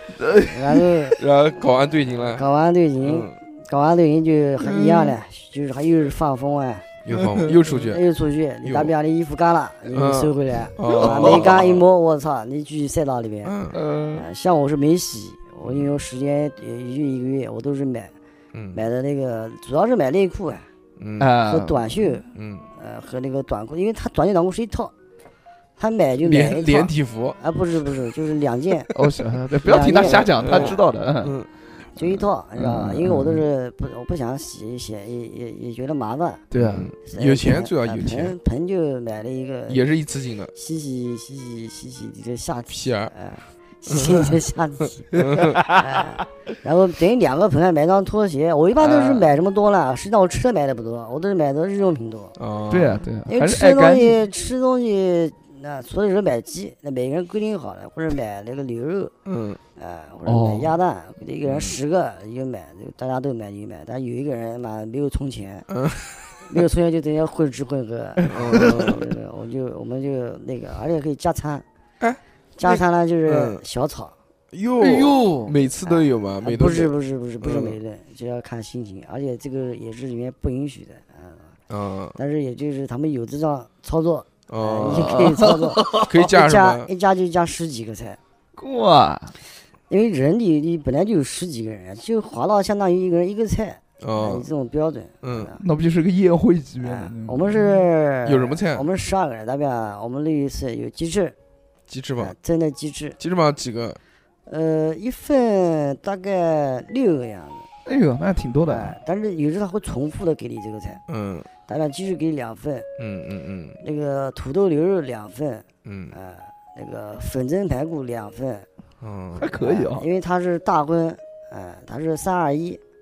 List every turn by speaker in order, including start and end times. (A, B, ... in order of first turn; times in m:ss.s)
0:00.2-0:00.9 A
0:00.5-0:01.2 B
0:01.2-0:02.4 C
0:02.4-0:06.9 B
0:03.0-0:03.4 C
0:04.6-0:05.1 A
0:07.0-0:08.0 C
0:07.7-0:13.5 B
0:08.6-0:08.9 C
0:09.9-0:11.8 C
0:10.9-0:11.5 A
0:13.4-0:13.8 C
0:13.7-0:14.2 A
0:14.2-0:18.1 B
0:18.5-0:18.8 C
0:18.7-0:20.6 B
0:21.0-0:21.3 C
0:21.2-0:22.1 A
0:21.4-0:22.2 B
0:22.3-0:22.7 C
0:22.8-0:24.9 B
0:25.8-0:28.9 B
0:26.2-0:27.4 C
0:28.9-0:31.4 A
0:29.6-0:30.8 B
0:30.0-0:31.5 C
0:32.0-0:36.4 B
0:32.6-0:33.4 A
0:36.5-0:36.9 A
0:36.5-0:38.4 C
0:37.0-0:39.9 B
0:39.7-0:40.5 C
0:40.5-0:52.4 B
0:42.7-0:43.1 C
0:43.9-0:44.3 C
0:45.1-0:45.6 C
0:45.2-0:46.0 A
0:48.8-0:49.3 C
0:52.4-0:53.1 C
0:52.7-0:54.2 A
0:53.3-0:59.1 B
0:59.3-0:59.6 C
0:59.8-1:05.7 B
1:00.3-1:00.7 A
1:01.5-1:01.8 C
1:05.7-1:06.4 C
1:06.5-1:11.6 B
1:08.2-1:08.8 A
1:08.3-1:09.0 C
1:12.0-1:13.6 C
1:12.6-1:14.1 B
1:14.5-1:17.8 C
1:14.8-1:15.5 A
1:15.8-1:21.5 B
1:21.7-1:22.2 C
1:22.2-1:28.2 B
1:24.5-1:25.2 C
1:24.8-1:26.1 A
1:26.0-1:26.9 C
1:28.6-1:29.3 A
1:29.9-1:35.6 B
1:34.0-1:34.5 C
1:35.2-1:35.5 C
1:35.6-1:37.8 A
1:36.8-1:41.4 B
1:38.2-1:38.9 C
1:41.9-1:42.4 C
1:42.2-1:43.2 B
1:43.2-1:44.0 C
1:44.5-1:47.6 B
1:47.9-1:49.0 A
1:48.7-1:51.0 B
1:51.1-1:51.5 C
1:51.7-1:52.9 B
1:53.0-1:53.8 C
1:53.8-1:58.7 B
1:55.8-1:56.2 C
1:59.0-1:59.5 C
1:59.4-2:00.1 A
1:59.5-2:02.8 B